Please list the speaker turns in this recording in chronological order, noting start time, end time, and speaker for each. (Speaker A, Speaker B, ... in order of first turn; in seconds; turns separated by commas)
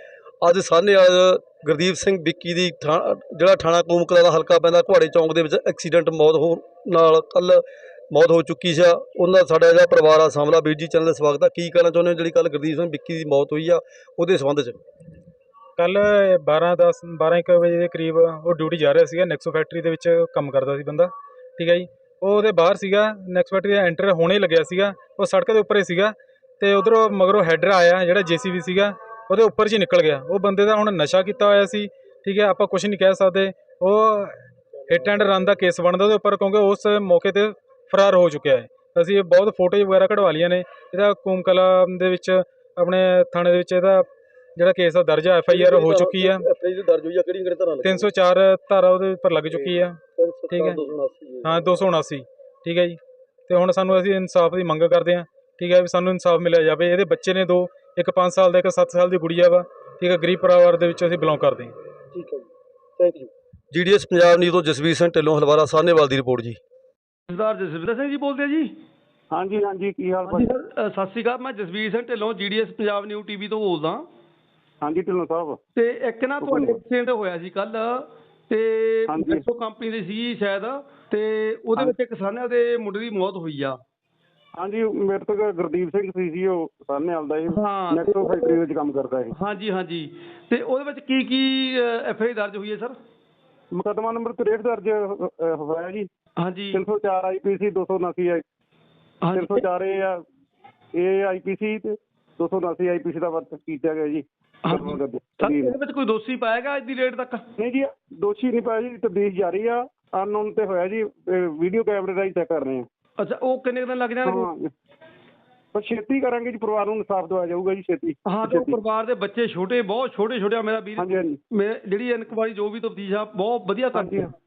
Speaker A: 0.4-14.8, Speaker B: 15.8-46.5, Speaker A: 45.5-48.1, Speaker B: 47.8-50.0, Speaker A: 49.5-51.8, Speaker B: 50.5-50.8, Speaker B: 51.4-61.7, Speaker A: 62.1-62.5, Speaker A: 63.0-66.6, Speaker C: 67.3-68.7, Speaker D: 69.3-70.5, Speaker C: 70.3-74.1, Speaker D: 74.8-75.6, Speaker C: 75.8-83.8, Speaker D: 76.4-76.8, Speaker D: 79.1-79.4, Speaker D: 84.5-89.3, Speaker C: 87.5-88.6, Speaker C: 89.3-93.0, Speaker D: 93.7-96.1, Speaker C: 96.4-96.8, Speaker D: 96.7-98.4, Speaker C: 99.2-99.7, Speaker D: 99.3-100.2, Speaker D: 101.0-105.8, Speaker C: 104.7-107.4, Speaker D: 107.6-112.9, Speaker C: 113.2-114.5, Speaker D: 114.2-114.7, Speaker D: 115.7-118.8, Speaker C: 118.3-124.3, Speaker D: 121.0-121.4, Speaker D: 123.9-124.3